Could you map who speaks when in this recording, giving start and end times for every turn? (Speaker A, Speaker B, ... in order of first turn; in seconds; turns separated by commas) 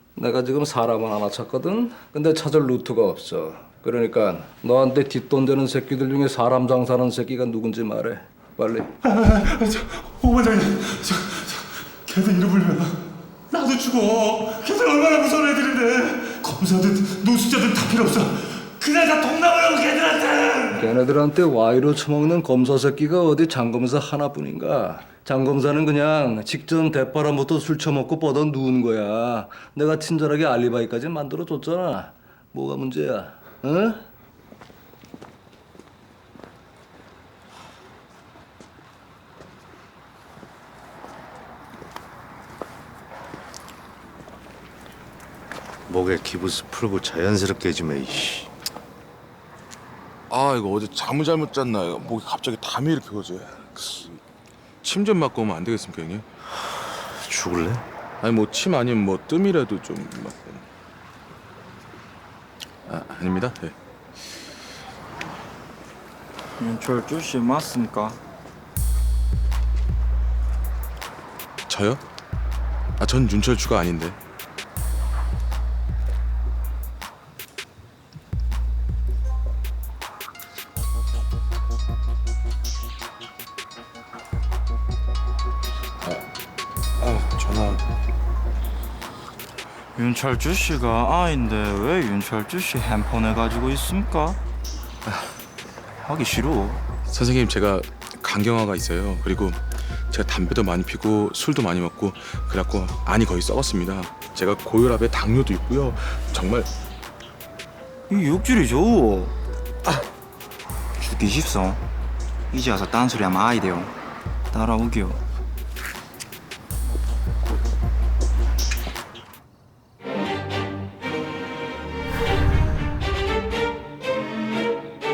Speaker A: 0.2-8.9, Speaker B: 9.1-13.0, Speaker B: 13.5-20.7, Speaker A: 20.7-34.0, Speaker C: 45.9-48.5, Speaker D: 50.3-54.2, Speaker D: 54.8-56.2, Speaker C: 57.1-57.8, Speaker D: 58.2-60.6, Speaker D: 62.9-63.7, Speaker E: 66.6-68.2, Speaker D: 71.7-72.0, Speaker D: 73.0-74.2, Speaker D: 87.0-87.8, Speaker E: 90.0-94.4, Speaker E: 96.0-96.8, Speaker D: 97.1-99.6, Speaker D: 100.1-106.7, Speaker E: 108.1-109.3, Speaker E: 111.0-111.8, Speaker E: 112.5-113.9, Speaker E: 114.5-115.2